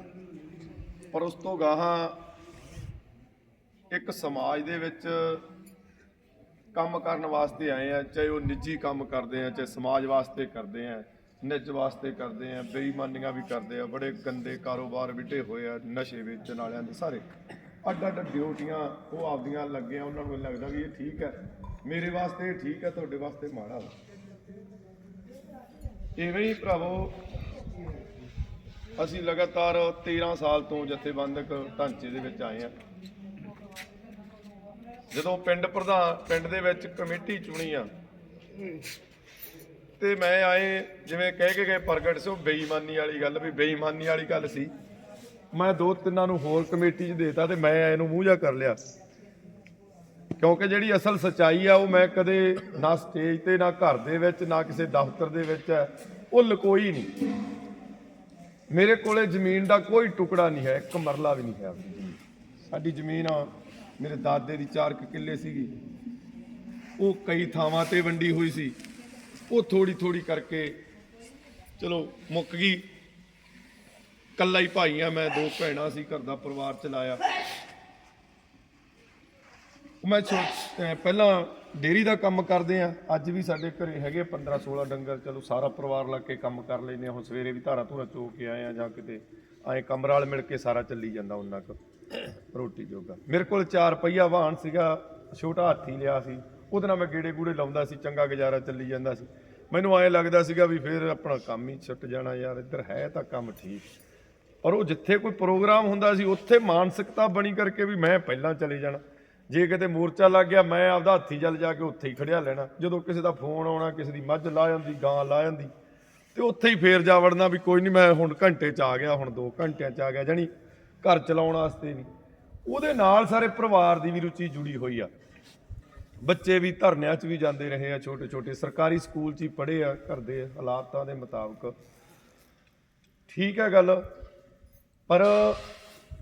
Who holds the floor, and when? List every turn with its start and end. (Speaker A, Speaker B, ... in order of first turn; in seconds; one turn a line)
Speaker A: 1.1-2.2
Speaker A: 3.9-5.4
Speaker A: 6.7-17.2
Speaker A: 17.8-23.9
Speaker A: 26.2-27.2
Speaker A: 29.0-32.7
Speaker A: 35.1-37.9
Speaker A: 40.0-44.7
Speaker A: 45.5-48.8
Speaker A: 50.4-57.1
Speaker A: 58.7-65.7
Speaker A: 67.0-68.8
Speaker A: 69.4-70.8
Speaker A: 71.8-72.9
Speaker A: 74.4-77.2
Speaker A: 80.0-103.9
Speaker A: 104.6-115.7
Speaker A: 116.3-120.5
Speaker A: 121.0-122.1
Speaker A: 122.7-125.1
Speaker A: 126.2-131.8
Speaker A: 133.3-134.1
Speaker A: 135.1-135.7